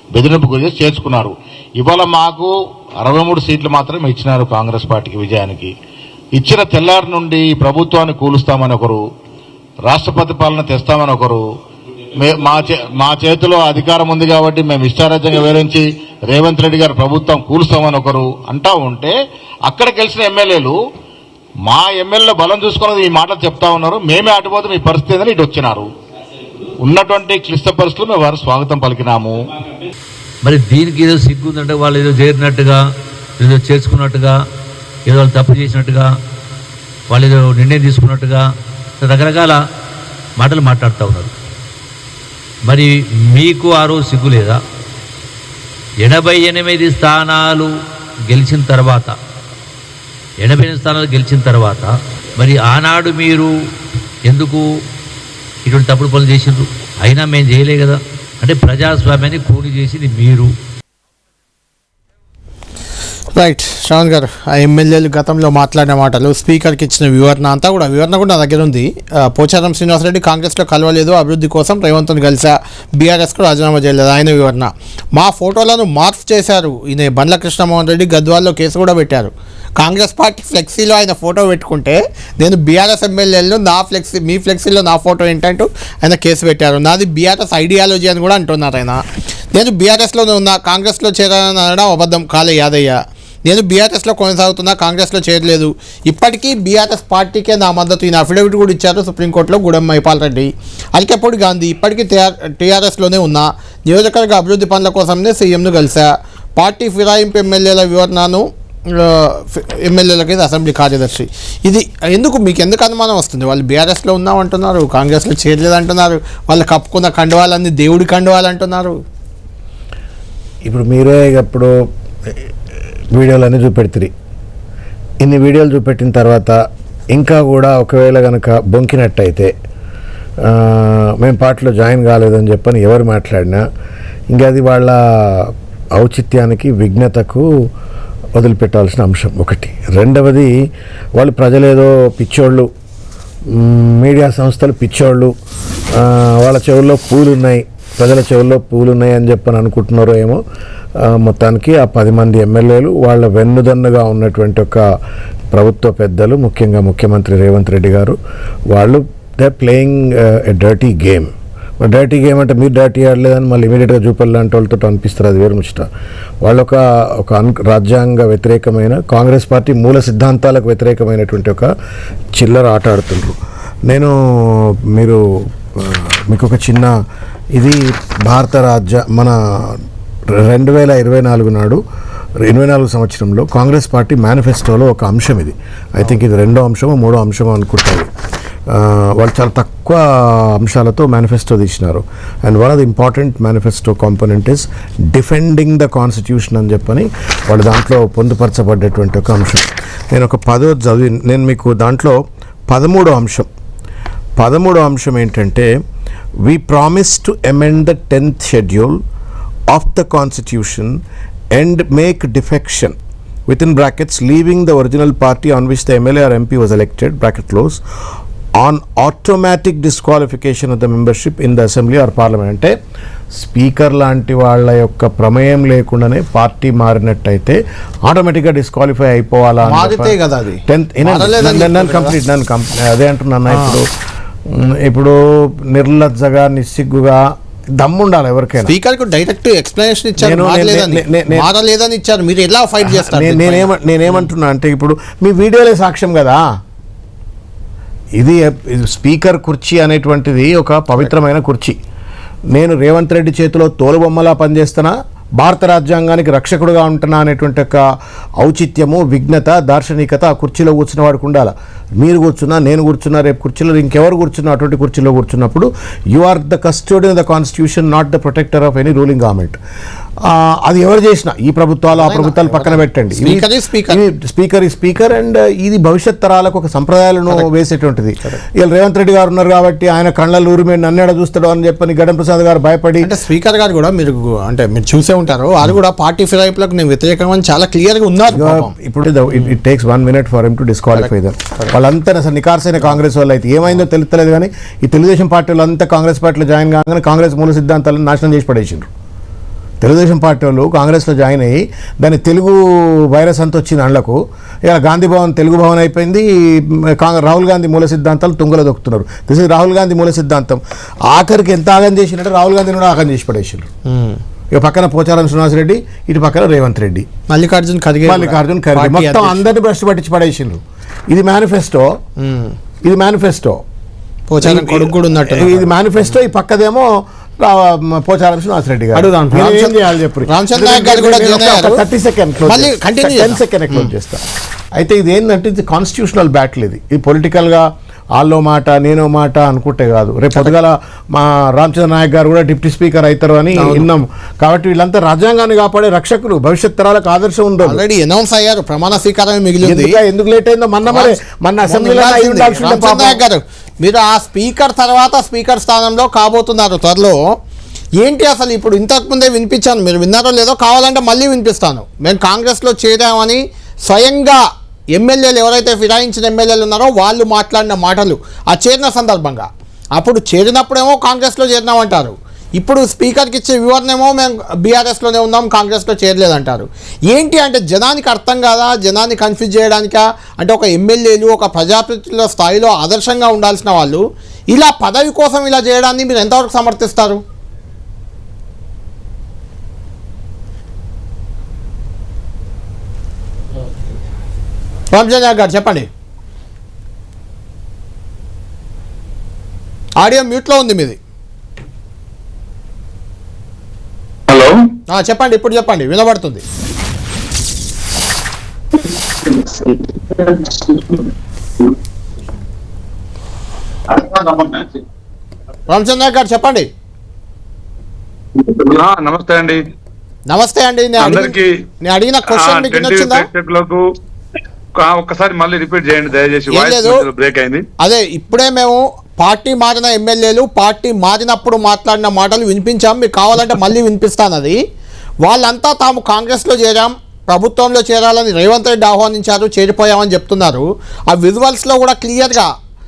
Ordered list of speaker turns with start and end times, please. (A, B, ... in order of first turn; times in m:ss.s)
0:00.2-0:05.7 A
0:06.4-0:09.0 A
0:09.9-0:11.4 A
0:12.2-0:19.2 A
0:19.7-0:20.8 A
0:21.6-0:25.9 A
0:26.8-0:29.4 A
0:30.4-0:32.8 B
0:33.4-0:34.4 B
0:35.1-0:36.1 B
0:37.1-0:38.4 B
0:39.0-0:39.6 B
0:40.4-0:41.3 B
0:42.7-0:44.6 B
0:46.0-0:47.7 B
0:48.3-0:49.2 B
0:50.4-0:53.5 B
0:54.3-0:54.6 B
0:55.7-1:00.5 B
1:03.4-1:29.0 C
1:29.5-1:59.0 C
2:00.6-2:01.7 D
2:03.1-2:04.1 D
2:05.2-2:06.6 D
2:07.1-2:09.5 D
2:10.4-2:13.6 D
2:14.3-2:17.5 D
2:18.4-2:20.5 D
2:21.2-2:22.7 D
2:23.5-2:25.3 D
2:25.9-2:30.4 D
2:31.0-2:34.8 D
2:35.5-2:38.2 D
2:38.7-2:45.9 D
2:46.4-2:51.7 D
2:52.4-2:55.2 D
2:55.7-2:56.9 D
2:57.6-3:01.8 D
3:02.4-3:08.1 D
3:08.7-3:22.2 D
3:22.7-3:23.5 D
3:24.4-3:25.7 D
3:26.4-3:29.0 D
3:29.7-3:31.0 D
3:31.5-3:37.8 D
3:38.6-3:42.8 D
3:43.3-3:53.9 D
3:49.6-3:52.2 C
3:53.5-3:53.8 C
3:54.5-3:58.8 D
3:58.7-4:03.7 C
4:00.2-4:01.5 D
4:02.8-4:06.4 D
4:08.2-4:11.8 D
4:12.5-4:17.8 D
4:18.4-4:29.6 D
4:30.2-4:43.1 D
4:32.0-4:34.0 C
4:43.0-4:48.7 C
4:48.3-4:58.9 D
4:50.9-4:51.8 C
4:59.8-5:13.7 D
5:13.9-5:14.2 C
5:14.5-5:17.1 D
5:17.3-5:19.5 C
5:18.0-5:21.9 D
5:22.2-5:22.6 C
5:22.8-5:23.6 D
5:24.3-5:25.7 C
5:24.4-5:26.9 D
5:27.4-5:34.2 D
5:28.9-5:31.8 C
5:32.4-5:33.9 C
5:34.8-5:47.8 D
5:43.6-5:43.9 C
5:47.6-5:50.0 C
5:49.6-5:53.2 D
5:50.9-5:57.2 C
5:58.0-6:04.4 C
6:04.9-6:27.2 C
6:34.9-6:35.9 C
6:40.0-6:41.0 C
6:44.3-6:44.6 E
6:44.9-6:46.4 C
6:48.8-6:51.1 E
6:53.9-6:54.8 E
6:55.7-6:56.7 C
6:58.4-6:59.6 E
7:00.3-7:03.3 C
7:01.0-7:01.5 E
7:02.3-7:03.8 E
7:04.8-7:07.6 E
7:06.5-7:07.0 C
7:07.8-7:14.6 C
7:15.2-7:22.5 C